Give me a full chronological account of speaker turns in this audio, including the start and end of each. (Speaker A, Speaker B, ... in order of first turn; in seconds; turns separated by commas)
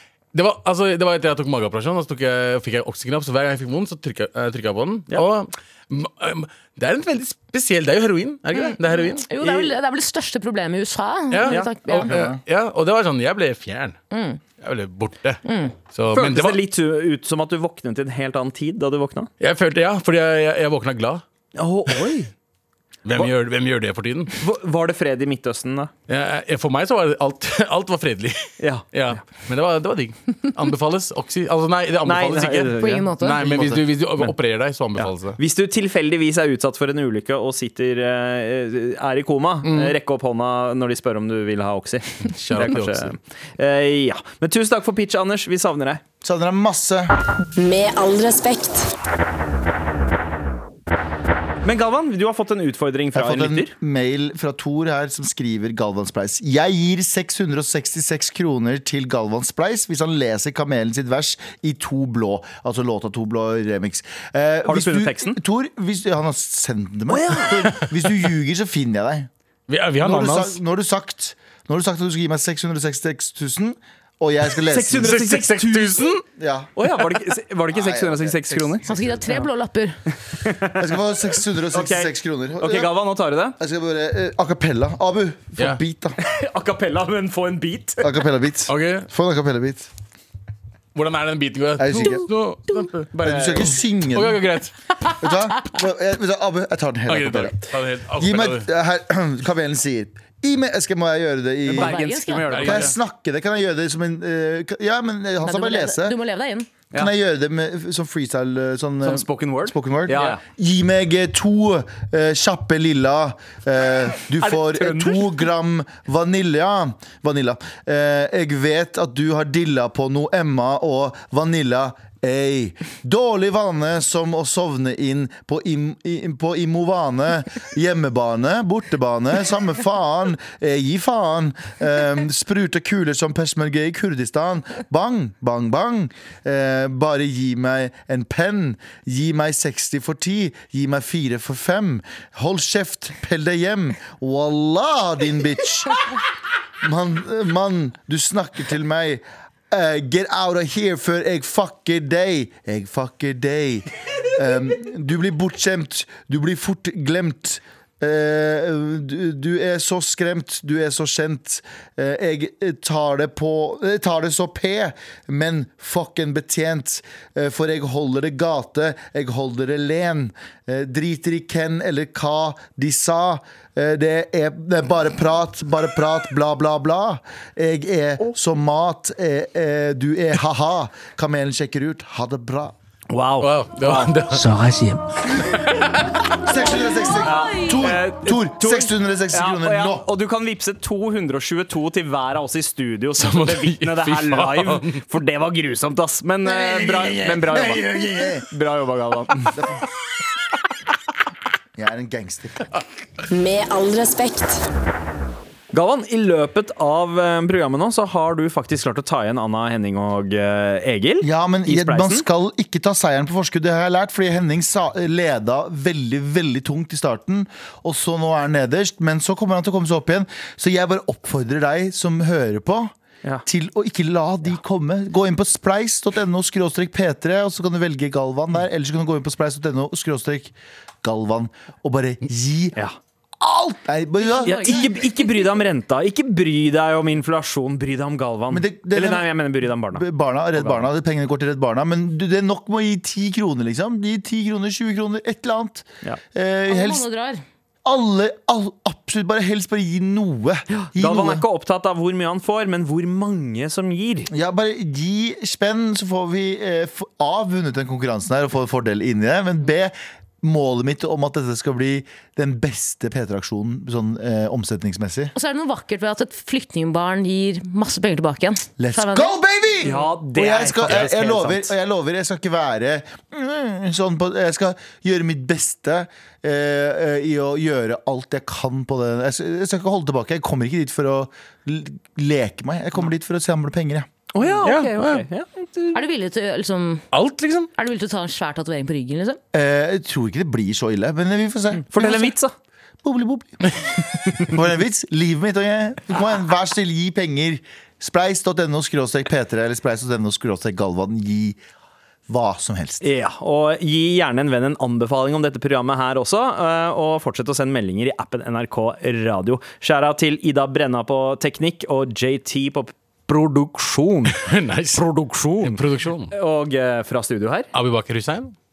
Speaker A: 0.3-9.2, Speaker B: 8.5-12.1, Speaker C: 9.4-9.7, Speaker A: 11.3-14.0, Speaker C: 11.4-11.7, Speaker D: 12.0-12.4, Speaker B: 14.1-14.4, Speaker A: 14.6-15.4, Speaker B: 15.4-15.7, Speaker A: 15.9-16.6, Speaker C: 16.1-19.3, Speaker A: 19.4-21.2, Speaker C: 21.6-22.3, Speaker A: 23.0-24.4, Speaker C: 24.4-25.9, Speaker A: 26.1-35.4, Speaker C: 28.6-29.2, Speaker C: 32.0-34.3, Speaker B: 32.8-33.4, Speaker C: 35.0-46.0, Speaker A: 39.6-39.9, Speaker A: 42.2-43.1, Speaker D: 46.2-47.1, Speaker E: 47.6-48.9, Speaker C: 51.6-53.7, Speaker D: 53.1-69.3, Speaker C: 64.7-65.4, Speaker C: 67.1-67.7, Speaker A: 69.7-70.6, Speaker D: 70.0-75.2, Speaker C: 74.7-76.2, Speaker A: 75.0-76.2, Speaker D: 76.4-76.7, Speaker C: 76.8-79.4, Speaker D: 77.7-79.2, Speaker B: 78.8-80.0, Speaker C: 80.3-81.0, Speaker D: 80.8-82.9, Speaker C: 81.7-83.6, Speaker D: 83.6-86.2, Speaker C: 86.2-88.2, Speaker D: 88.0-89.9, Speaker A: 88.7-89.1, Speaker A: 90.9-95.1, Speaker D: 91.8-92.3, Speaker D: 93.2-94.4, Speaker C: 93.2-93.6, Speaker D: 95.2-102.0, Speaker A: 97.1-98.7, Speaker C: 101.7-102.9, Speaker B: 101.7-102.6, Speaker A: 102.5-102.9, Speaker D: 102.5-106.2, Speaker B: 105.4-106.7, Speaker D: 106.9-146.0, Speaker C: 109.0-110.4, Speaker C: 114.3-115.4, Speaker D: 146.8-182.7, Speaker C: 183.1-184.4, Speaker A: 183.4-184.4, Speaker E: 184.3-185.0, Speaker A: 185.4-186.1, Speaker D: 186.4-190.1, Speaker B: 186.5-187.9, Speaker C: 187.2-199.6, Speaker A: 193.2-195.0, Speaker D: 196.6-198.4, Speaker D: 199.5-199.8, Speaker D: 201.7-202.7, Speaker E: 203.3-204.7, Speaker C: 205.7-212.2, Speaker D: 211.2-232.8, Speaker D: 233.4-234.9, Speaker B: 234.2-235.6, Speaker C: 234.4-240.8, Speaker D: 238.5-247.1, Speaker B: 246.7-247.4, Speaker D: 247.8-251.4, Speaker C: 250.7-254.3, Speaker D: 254.3-265.3, Speaker B: 265.3-269.4, Speaker D: 268.8-284.1, Speaker C: 269.8-271.7, Speaker C: 284.3-286.0, Speaker A: 284.6-285.2, Speaker B: 285.9-287.1, Speaker A: 287.1-287.7, Speaker B: 287.7-289.4, Speaker D: 289.5-292.3, Speaker C: 291.9-292.5, Speaker D: 293.0-293.9, Speaker D: 294.4-301.6, Speaker D: 302.3-303.1, Speaker C: 303.0-314.4, Speaker A: 314.3-316.3, Speaker C: 314.9-317.7, Speaker A: 317.7-318.5